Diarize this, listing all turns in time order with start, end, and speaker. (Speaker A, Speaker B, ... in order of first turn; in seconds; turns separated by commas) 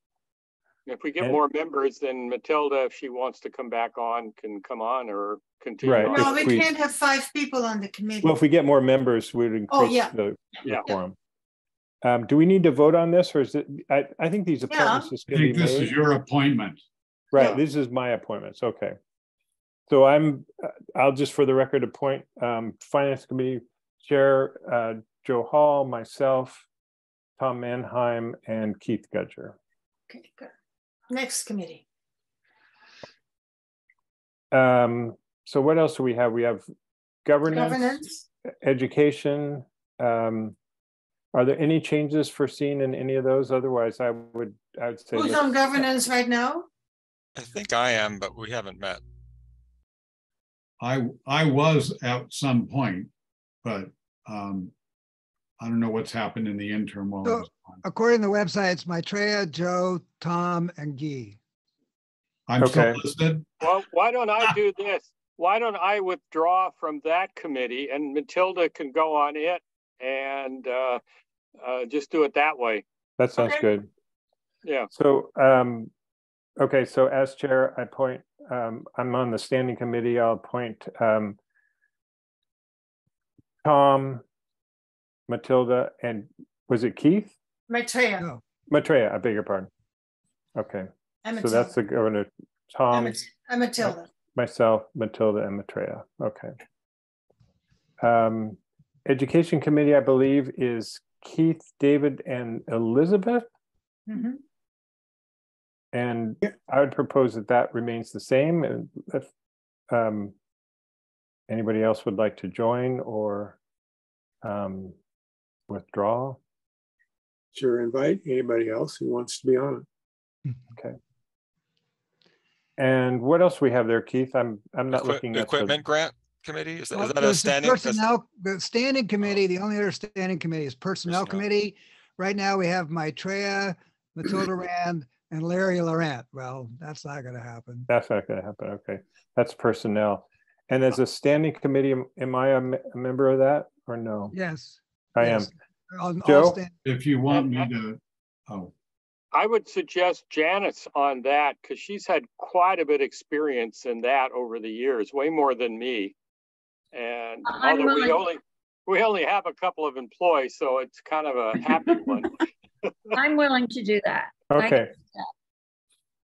Speaker A: 0.9-6.6, Speaker B: 5.8-6.7, Speaker C: 6.1-8.4, Speaker B: 8.2-11.2, Speaker C: 9.7-11.0, Speaker B: 12.0-16.0, Speaker C: 14.7-15.1, Speaker D: 15.3-16.8, Speaker B: 17.3-19.0, Speaker C: 17.4-17.6, Speaker B: 19.9-26.7, Speaker B: 27.4-29.6, Speaker C: 30.1-30.5, Speaker C: 31.1-31.8, Speaker B: 34.5-36.7, Speaker B: 37.2-38.0, Speaker C: 37.5-38.2, Speaker B: 38.6-40.6, Speaker B: 41.3-45.9, Speaker C: 45.1-46.7, Speaker E: 47.4-49.0, Speaker D: 50.8-53.1, Speaker D: 53.6-54.7, Speaker D: 55.6-57.8, Speaker F: 57.2-61.4, Speaker D: 62.5-63.8, Speaker B: 62.6-63.0, Speaker A: 63.6-71.0, Speaker A: 71.6-72.8, Speaker B: 73.2-73.9, Speaker B: 75.0-75.9, Speaker B: 76.6-81.4, Speaker B: 83.6-84.2, Speaker B: 85.3-87.3, Speaker C: 87.7-88.3, Speaker B: 88.7-89.7, Speaker B: 90.6-93.2, Speaker C: 91.2-91.8, Speaker C: 92.9-94.1, Speaker B: 93.8-96.5, Speaker B: 98.0-103.5, Speaker C: 104.1-104.4, Speaker B: 105.9-109.3, Speaker B: 109.9-110.3, Speaker B: 111.5-113.6, Speaker B: 114.4-115.0, Speaker B: 115.7-116.4, Speaker G: 117.5-119.9, Speaker B: 122.8-125.8, Speaker E: 124.9-128.0, Speaker F: 126.9-137.9, Speaker E: 131.1-131.4, Speaker B: 137.9-144.3, Speaker F: 144.3-146.7, Speaker B: 145.2-145.5, Speaker B: 146.2-146.6, Speaker D: 146.8-148.7, Speaker A: 147.3-147.7, Speaker A: 149.3-156.2, Speaker A: 156.9-162.3, Speaker H: 157.4-158.3, Speaker H: 163.1-165.3, Speaker B: 164.5-164.9